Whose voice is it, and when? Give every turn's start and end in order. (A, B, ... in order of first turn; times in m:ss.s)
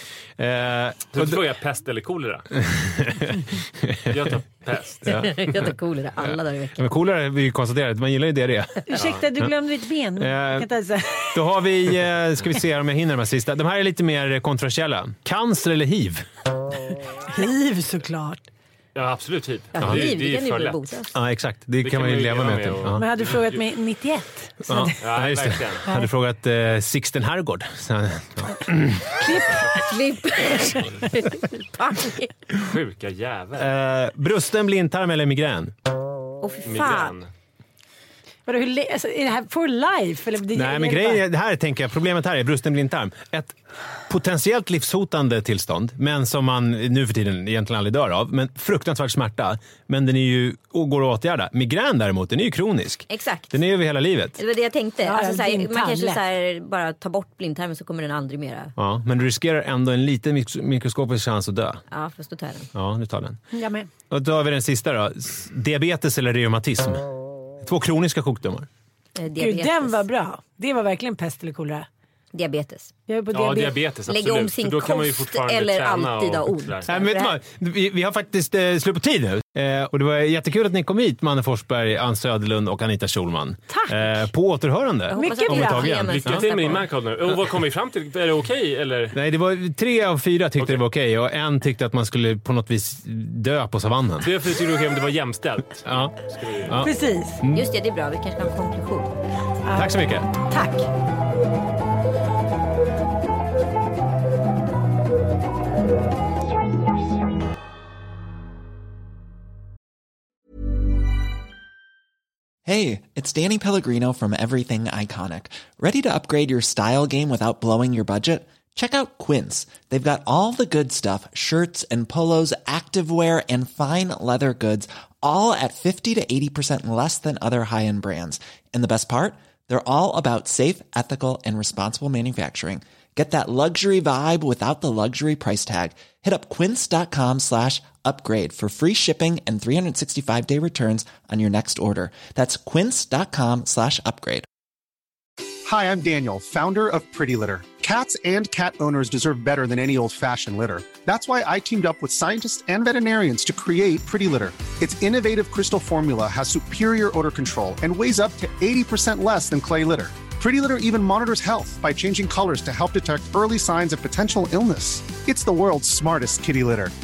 0:00.4-0:01.4 A
0:01.1-0:02.5 B
0:02.6-0:04.4 A
0:04.1-0:05.3 B
0:05.0-0:06.9 C
0:06.2-0:08.9 A
0:08.9-0:11.4 D
0:09.0-0:09.2 B
0:10.2-0:10.7 A
0:11.3-0:16.2 A
0:17.3-0:18.4 D
0:19.0-0:20.8 B
0:19.8-0:21.2 C
0:19.8-0:20.1 A
0:21.1-0:23.0 A
0:21.8-0:23.6 B
0:22.9-0:25.1 D
0:24.6-0:29.2 A
0:25.0-0:25.9 B
0:29.1-0:29.9 D
0:29.8-0:32.3 C
0:30.6-0:31.0 D
0:32.6-0:33.7 B
0:33.6-0:35.7 A
0:36.4-0:37.2 C
0:36.6-0:37.3 B
0:38.5-0:41.2 D
0:40.4-0:43.6 A
0:44.1-0:54.4 A
0:53.1-0:53.7 C
0:54.4-0:58.7 C
0:55.0-0:56.2 D
0:58.8-1:01.8 A
1:01.9-1:02.7 C
1:02.7-1:03.4 A
1:03.5-1:03.9 D
1:04.1-1:07.1 A
1:07.6-1:08.7 A
1:09.2-1:10.0 C
1:09.4-1:11.9 D
1:12.3-1:12.9 C
1:13.1-1:13.8 D
1:13.3-1:16.9 B
1:14.1-1:17.4 C
1:16.9-1:26.5 A
1:23.7-1:24.0 D
1:25.1-1:26.9 C
1:25.1-1:25.9 D
1:25.9-1:29.2 B
1:29.1-1:34.3 A
1:34.2-1:36.8 B
1:35.9-1:37.7 A
1:36.8-1:37.4 D
1:37.5-1:39.2 C
1:39.7-1:40.9 D
1:39.8-1:40.3 A
1:52.7-2:24.5 E
2:25.6-2:46.9 F